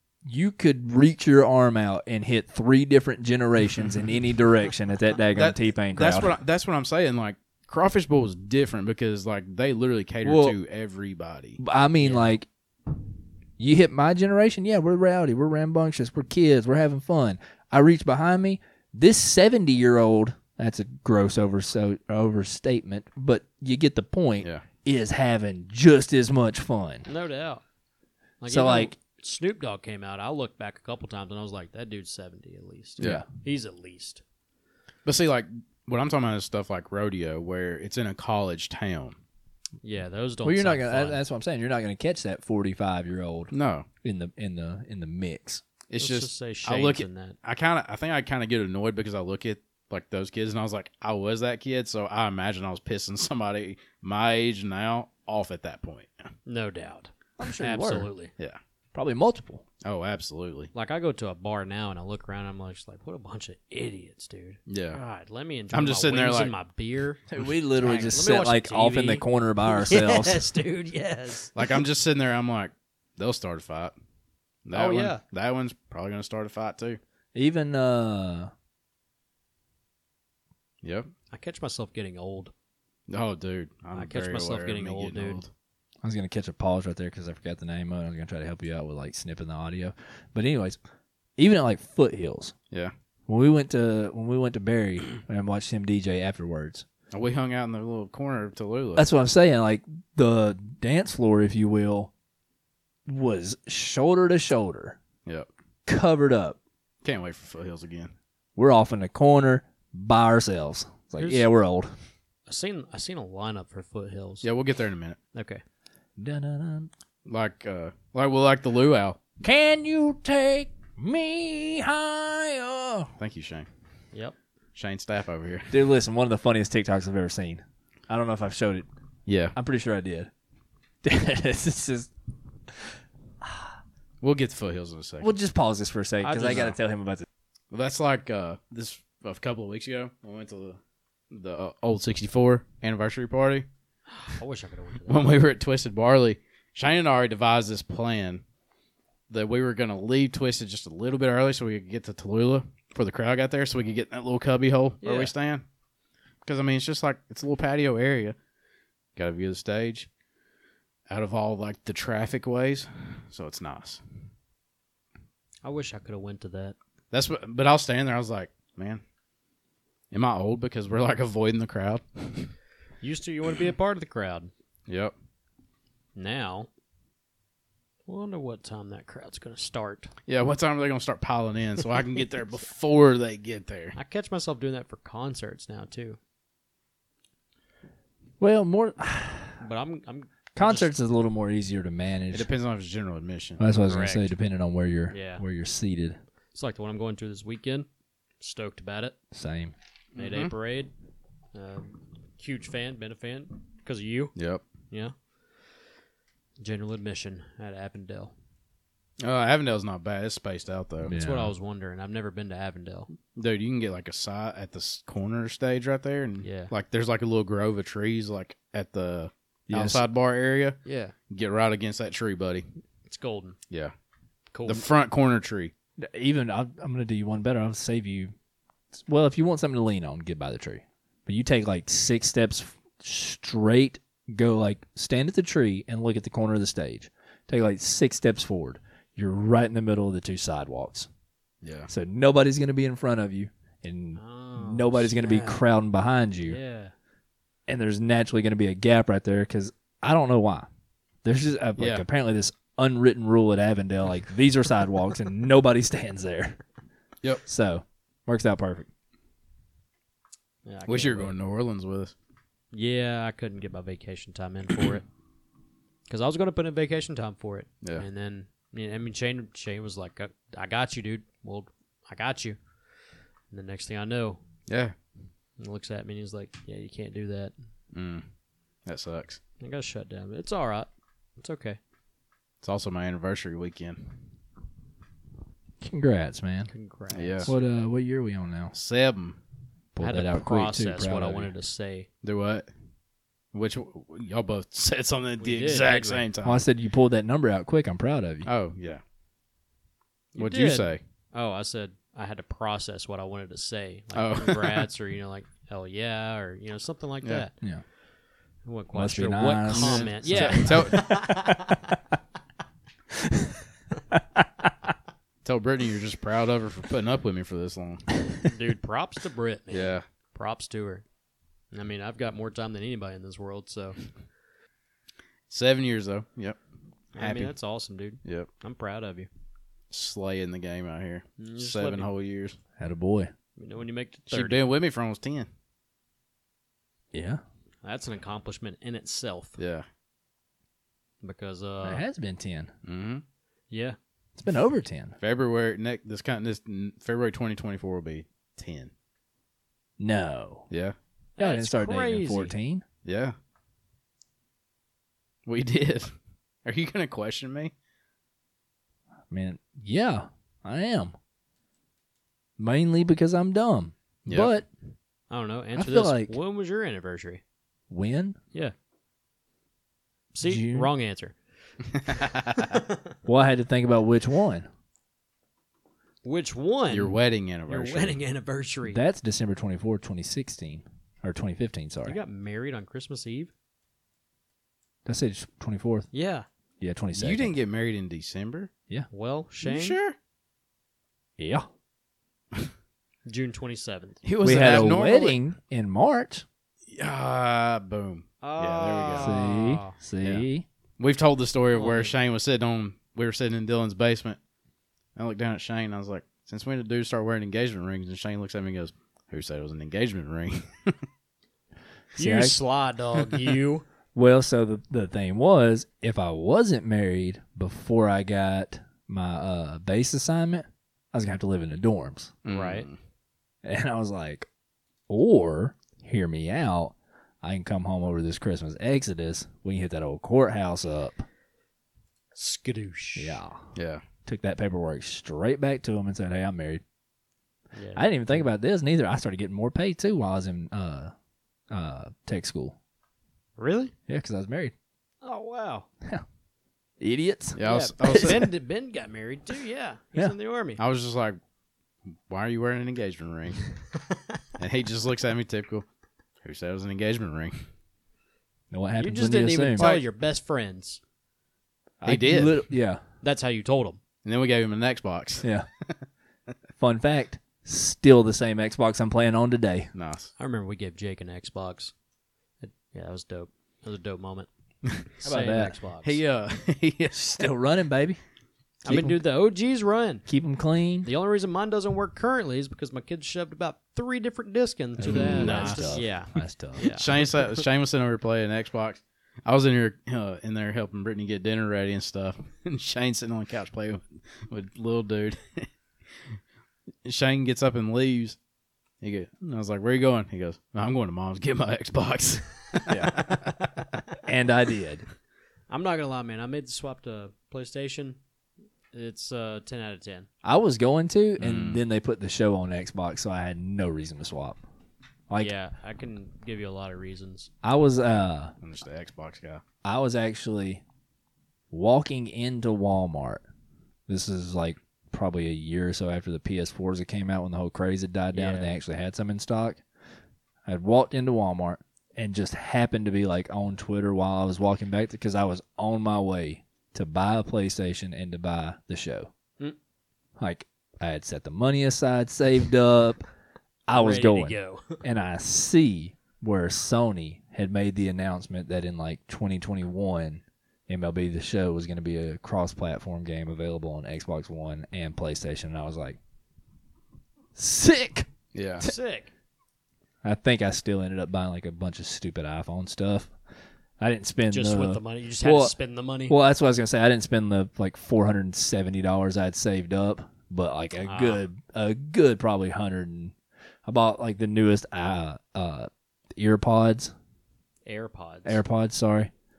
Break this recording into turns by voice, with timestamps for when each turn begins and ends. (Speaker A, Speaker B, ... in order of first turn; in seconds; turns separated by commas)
Speaker A: 0.2-6.3, Speaker B: 5.3-11.6, Speaker A: 10.2-10.6, Speaker A: 11.6-12.5, Speaker C: 12.0-12.3, Speaker A: 13.6-27.1, Speaker C: 27.1-27.6, Speaker C: 28.4-34.2, Speaker A: 28.5-28.9, Speaker B: 33.0-33.2, Speaker A: 33.0-33.2, Speaker B: 35.0-39.2, Speaker C: 39.8-41.2, Speaker A: 40.4-43.5, Speaker B: 43.5-43.9, Speaker A: 44.0-45.6, Speaker B: 45.9-56.3, Speaker C: 46.0-47.4, Speaker C: 56.5-58.3, Speaker A: 57.4-58.1, Speaker A: 58.9-59.6, Speaker B: 59.8-60.7, Speaker C: 60.7-71.8, Speaker B: 64.7-65.0, Speaker B: 65.7-66.5, Speaker A: 67.3-70.5, Speaker B: 71.5-73.9, Speaker B: 74.6-77.0, Speaker C: 74.7-75.2, Speaker A: 77.3-78.5, Speaker B: 80.8-81.1, Speaker C: 81.3-82.5, Speaker B: 83.1-85.5, Speaker C: 83.9-85.4, Speaker A: 86.0-90.8, Speaker A: 91.4-92.5, Speaker A: 93.3-96.8, Speaker B: 97.1-99.1, Speaker A: 99.0-102.1, Speaker A: 103.1-105.0, Speaker A: 105.8-106.6, Speaker B: 107.0-108.1, Speaker A: 108.5-111.9, Speaker C: 111.2-111.5, Speaker C: 112.5-114.5, Speaker B: 114.4-115.2, Speaker C: 115.3-115.6, Speaker A: 116.2-116.9, Speaker B: 117.3-119.2, Speaker A: 119.4-123.1, Speaker B: 123.2-123.7, Speaker B: 124.8-125.8, Speaker A: 125.7-128.8, Speaker B: 129.3-129.6, Speaker A: 129.5-130.3, Speaker A: 131.0-132.1, Speaker A: 132.7-133.8, Speaker B: 134.2-135.3, Speaker A: 135.2-137.2, Speaker C: 136.2-136.7, Speaker B: 136.4-136.7, Speaker B: 137.7-140.8, Speaker B: 141.3-143.7, Speaker C: 144.1-145.3, Speaker B: 145.1-148.4, Speaker B: 149.3-155.6, Speaker C: 155.0-155.3, Speaker B: 156.4-158.3, Speaker B: 159.2-160.1, Speaker B: 161.1-164.0, Speaker C: 165.6-166.8, Speaker B: 167.1-169.0, Speaker B: 170.1-172.5, Speaker C: 173.0-174.5, Speaker B: 174.9-175.1, Speaker C: 176.2-176.7, Speaker C: 178.1-180.1, Speaker B: 180.3-183.9, Speaker C: 183.9-186.2, Speaker A: 188.4-189.6, Speaker C: 189.6-190.9, Speaker A: 190.5-192.5, Speaker B: 192.3-193.6, Speaker A: 193.6-196.2, Speaker C: 193.8-194.3, Speaker C: 195.1-195.4, Speaker C: 196.5-197.9, Speaker C: 198.4-199.2, Speaker A: 199.3-199.7, Speaker B: 200.1-200.5, Speaker C: 200.2-200.9, Speaker C: 201.5-204.3, Speaker B: 204.3-204.6, Speaker C: 206.6-208.3, Speaker B: 209.2-211.1, Speaker A: 211.0-211.5, Speaker C: 211.1-213.1, Speaker B: 213.3-220.8, Speaker C: 216.4-216.7, Speaker A: 219.7-220.0, Speaker C: 220.8-221.1, Speaker B: 221.3-222.6, Speaker C: 223.1-223.6, Speaker C: 224.5-224.8, Speaker B: 224.7-225.7, Speaker A: 226.0-228.3, Speaker A: 228.9-241.1, Speaker B: 241.6-241.9, Speaker A: 241.9-246.6, Speaker C: 244.2-245.6, Speaker C: 246.4-246.9, Speaker A: 247.7-250.7, Speaker A: 251.2-256.6, Speaker B: 251.8-252.0, Speaker A: 257.4-258.9, Speaker C: 260.6-261.3, Speaker B: 260.9-262.1, Speaker C: 262.7-265.0, Speaker C: 266.1-272.6, Speaker C: 273.5-274.4, Speaker B: 274.7-274.9, Speaker C: 275.6-277.5, Speaker B: 277.9-278.2, Speaker B: 278.9-279.4, Speaker C: 279.6-281.8, Speaker B: 282.6-284.1, Speaker A: 285.8-286.7, Speaker C: 286.7-287.5, Speaker B: 287.1-287.5, Speaker A: 287.4-288.7, Speaker B: 288.7-289.4, Speaker A: 289.9-291.5, Speaker C: 290.0-292.1, Speaker B: 292.2-292.7, Speaker B: 293.5-296.6, Speaker C: 295.4-296.2, Speaker A: 296.4-298.5, Speaker B: 298.4-299.0, Speaker C: 300.3-307.6, Speaker B: 300.4-301.0, Speaker B: 304.1-304.9, Speaker C: 308.6-311.6, Speaker A: 308.9-312.0, Speaker B: 309.7-311.2, Speaker A: 313.1-313.6, Speaker A: 314.1-314.7, Speaker B: 315.4-318.0, Speaker C: 318.4-321.0, Speaker B: 319.7-320.0, Speaker C: 321.7-324.0, Speaker B: 325.5-326.6, Speaker C: 327.1-329.3, Speaker B: 327.2-327.5, Speaker B: 329.9-332.6, Speaker C: 331.4-332.1, Speaker A: 332.8-333.3, Speaker C: 333.6-334.6, Speaker B: 334.3-335.5, Speaker A: 337.1-337.4, Speaker C: 337.8-339.6, Speaker B: 339.6-339.9, Speaker C: 341.2-342.0, Speaker A: 341.8-342.7, Speaker B: 342.8-343.2, Speaker C: 343.7-344.0, Speaker A: 344.4-345.1, Speaker B: 345.2-348.9, Speaker A: 350.0-350.7, Speaker B: 350.7-350.9, Speaker C: 351.4-352.5, Speaker A: 351.4-352.8, Speaker B: 353.0-353.3, Speaker B: 355.4-356.1, Speaker B: 356.6-357.7, Speaker A: 359.3-361.1, Speaker A: 362.6-364.7, Speaker B: 364.2-364.6, Speaker C: 365.3-367.4, Speaker A: 365.8-366.3, Speaker A: 367.9-368.4, Speaker C: 370.3-371.4, Speaker A: 370.4-370.9, Speaker B: 371.9-372.8, Speaker C: 372.1-373.0, Speaker A: 373.2-374.7, Speaker C: 376.2-379.0, Speaker B: 376.9-378.2, Speaker A: 378.9-382.2, Speaker C: 382.1-383.5, Speaker A: 385.1-386.1, Speaker C: 386.1-386.4, Speaker A: 386.8-387.6, Speaker B: 387.1-388.7, Speaker C: 389.1-390.0, Speaker B: 389.6-390.1, Speaker A: 391.4-391.7, Speaker C: 393.2-394.2, Speaker B: 394.2-395.4, Speaker A: 394.4-396.4, Speaker B: 396.9-399.4, Speaker C: 398.4-399.9, Speaker A: 399.1-400.6, Speaker B: 401.0-404.4, Speaker C: 401.7-402.2, Speaker B: 405.1-411.0, Speaker A: 412.1-412.6, Speaker C: 412.1-413.9, Speaker A: 414.1-422.4, Speaker B: 422.4-422.9, Speaker C: 422.5-422.9, Speaker A: 423.6-424.5, Speaker A: 425.1-431.2, Speaker C: 432.3-433.4, Speaker A: 433.1-433.7, Speaker B: 433.7-434.0, Speaker A: 434.2-436.8, Speaker C: 437.7-438.5, Speaker A: 437.9-441.1, Speaker A: 441.7-442.8, Speaker C: 443.6-443.9, Speaker A: 444.1-444.7, Speaker C: 445.2-445.9, Speaker A: 447.0-447.6, Speaker B: 447.6-448.5, Speaker C: 447.6-450.8, Speaker A: 448.1-448.4, Speaker B: 450.8-451.4, Speaker B: 452.1-453.6, Speaker B: 454.6-455.9, Speaker B: 456.4-457.6, Speaker A: 458.7-459.9, Speaker C: 459.0-461.0, Speaker B: 459.8-460.0, Speaker A: 462.0-463.0, Speaker B: 462.0-462.7, Speaker C: 463.2-464.0, Speaker B: 464.2-466.0, Speaker A: 465.4-465.7, Speaker A: 466.8-469.9, Speaker B: 469.9-470.3, Speaker C: 470.4-471.9, Speaker C: 472.6-474.5, Speaker C: 475.2-476.2, Speaker A: 475.2-475.8, Speaker B: 476.0-477.4, Speaker A: 477.1-478.2, Speaker C: 478.8-480.3, Speaker A: 478.9-479.2, Speaker A: 480.3-481.1, Speaker C: 481.0-487.6, Speaker A: 485.0-486.9, Speaker B: 485.0-486.0, Speaker B: 486.8-495.7, Speaker B: 497.0-498.4, Speaker B: 499.0-503.6, Speaker A: 504.2-505.1, Speaker C: 505.7-508.2, Speaker C: 508.9-510.3, Speaker A: 510.4-514.6, Speaker B: 511.4-511.8, Speaker C: 515.4-517.5, Speaker A: 517.6-518.5, Speaker B: 518.6-519.6, Speaker A: 519.8-520.8, Speaker A: 521.7-523.4, Speaker A: 524.1-529.8, Speaker C: 528.3-528.7, Speaker A: 530.6-539.3, Speaker A: 540.4-543.2, Speaker A: 543.9-556.2, Speaker C: 543.9-545.0, Speaker A: 557.5-558.3, Speaker B: 558.5-558.9, Speaker C: 558.8-559.3, Speaker A: 560.2-563.3, Speaker A: 564.0-565.7, Speaker C: 564.5-566.4, Speaker A: 566.3-577.1, Speaker C: 571.0-571.4, Speaker C: 577.8-578.6, Speaker A: 578.4-579.3